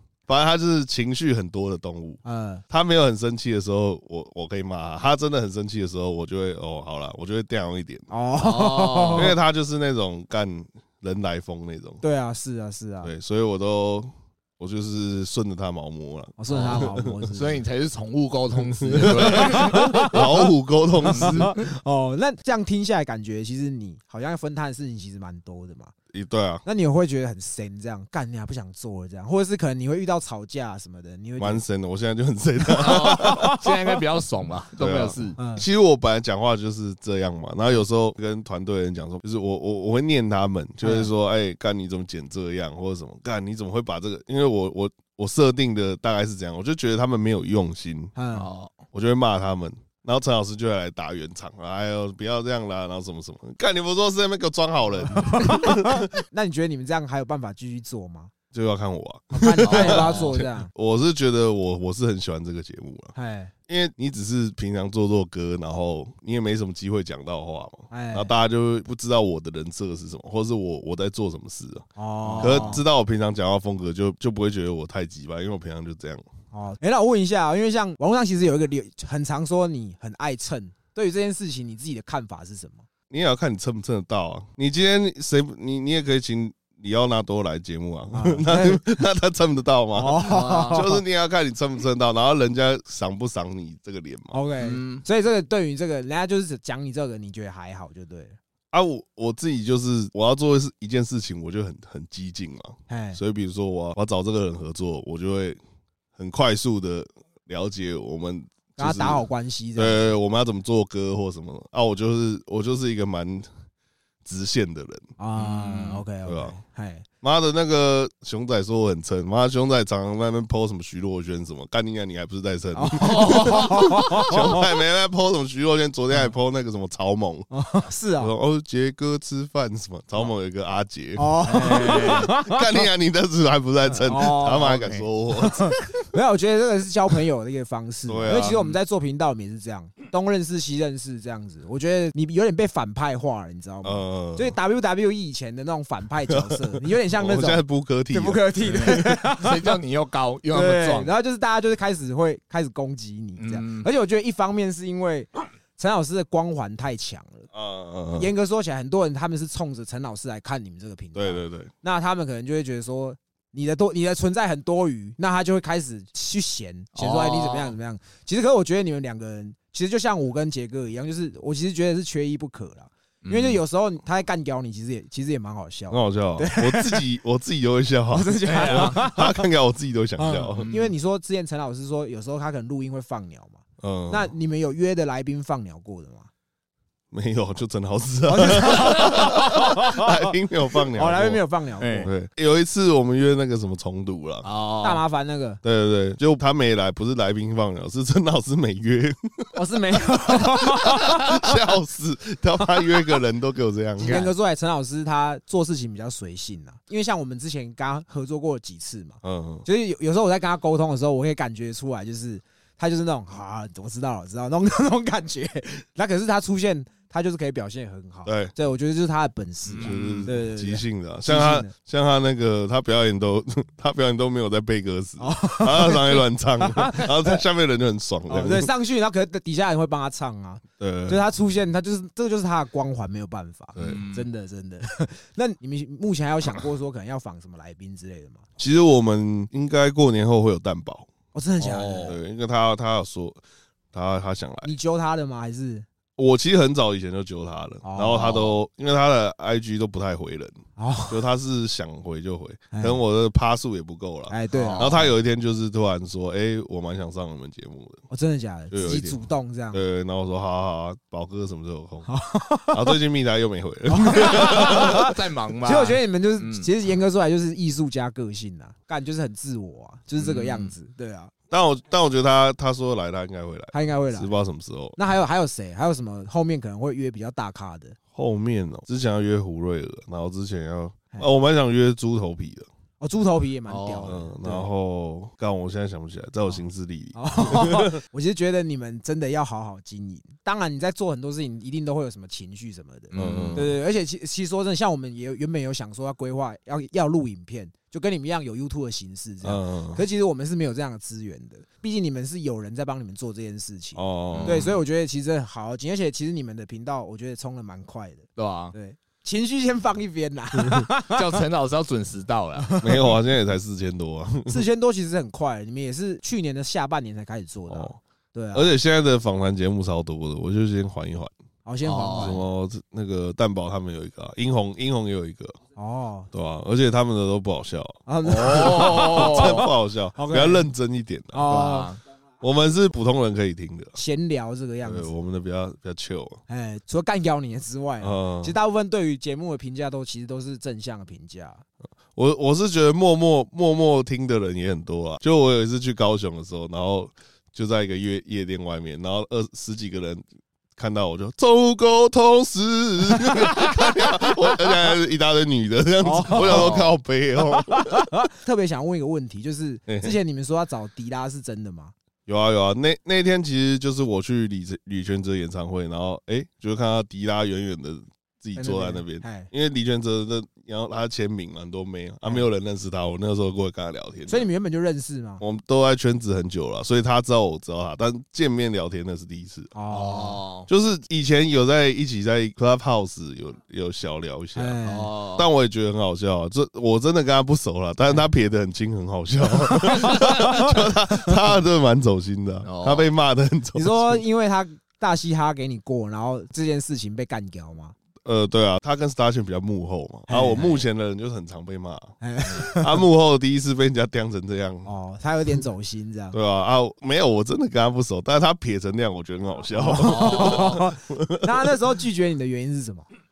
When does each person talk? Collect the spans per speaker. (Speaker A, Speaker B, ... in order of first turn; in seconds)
Speaker A: 0.3-8.1, 9.2-12.0, 13.0-17.2, 18.6-21.6, 26.1-26.6, 31.4-33.6, 34.8-48.1, 48.9-56.1, 58.5-63.1, 63.7-71.8, 72.4-76.2, 83.1-94.4, 98.7-105.6, 106.2-113.5, 114.2-115.0, 116.2-116.5, 117.2-127.5, 128.2-135.7, 138.1-138.7, 143.8-144.5, 146.3-149.0, 157.5-158.3, 161.1-161.7, 175.9-180.7, 183.8-184.3, 187.1-191.4, 192.0-194.4, 195.6-199.5, 200.3-204.3, 209.2-209.7, 218.2-218.5, 219.8-228.7, 230.8-231.2, 233.8-234.0, 238.6-241.1, 242.1-243.4, 243.9-244.7, 246.2-258.0, 258.7-259.2, 259.7-262.1, 262.7-265.1, 271.5-275.0, 278.1-282.7, 284.0-288.0, 293.1-293.7, 299.4-300.0, 303.9-304.7, 312.8-314.6, 317.7-318.0, 318.5-321.3, 322.2-325.6, 326.3-331.6, 332.4-334.0, 334.8-336.4, 338.0-338.5, 342.1-350.2, 350.8-358.1, 359.9-360.1, 362.2-374.5, 375.4-379.7, 380.7-394.2, 398.2-404.9, 406.3-411.8
Speaker B: 2.2-2.6, 8.1-9.3, 12.0-13.1, 16.4-17.6, 19.1-20.2, 21.0-25.9, 26.6-31.6, 32.6-33.7, 35.4-35.6, 40.8-41.1, 48.1-48.5, 55.1-58.3, 59.3-60.7, 63.1-63.5, 67.9-68.3, 72.0-72.8, 76.5-82.8, 88.1-88.8, 89.9-91.0, 94.3-98.4, 102.9-103.2, 108.8-110.1, 115.2-117.0, 122.7-124.7, 127.5-128.3, 131.2-132.6, 133.9-149.7, 150.5-157.5, 158.2-177.1, 178.1-179.5, 180.2-186.3, 188.3-190.3, 190.9-192.1, 194.8-195.6, 199.5-201.6, 204.0-221.7, 225.2-227.4, 228.3-238.4, 241.3-242.2, 244.6-245.8, 247.8-248.3, 250.8-251.2, 252.7-253.0, 254.3-255.1, 258.1-259.8, 262.1-262.9, 263.9-271.3, 273.7-274.3, 274.9-278.0, 283.0-284.6, 287.1-311.4, 312.6-313.1, 314.5-318.7, 321.6-322.4, 325.7-326.3, 328.1-330.7, 331.3-331.9, 333.9-335.1, 336.5-341.6, 353.2-354.3, 356.0-356.8, 357.7-361.9, 368.6-369.5, 374.3-375.4, 379.7-380.4, 384.5-385.1, 389.7-390.7, 393.7-397.9, 400.3-400.8, 402.2-403.0, 404.8-406.4, 409.7-413.1
Speaker C: 8.4-9.3, 16.5-20.1, 32.8-35.4, 48.3-48.8, 59.6-60.3, 72.2-72.8, 90.2-90.8, 94.6-95.0, 115.3-116.0, 123.0-123.7, 131.4-132.3, 134.7-135.1, 148.6-151.1, 153.4-153.9, 167.0-167.7, 173.2-173.6, 178.4-179.0, 180.5-180.9, 191.8-192.1, 194.4-195.0, 204.0-204.3, 219.7-220.3, 233.8-234.3, 241.6-242.2, 248.1-248.6, 254.5-255.0, 264.1-266.7, 270.2-270.7, 283.7-284.2, 293.1-293.7, 304.3-304.8, 308.4-308.7, 311.1-312.8, 321.8-322.4, 328.2-329.6, 331.4-332.0, 356.3-356.9, 379.9-380.7, 384.8-385.5, 392.6-393.1, 410.0-410.8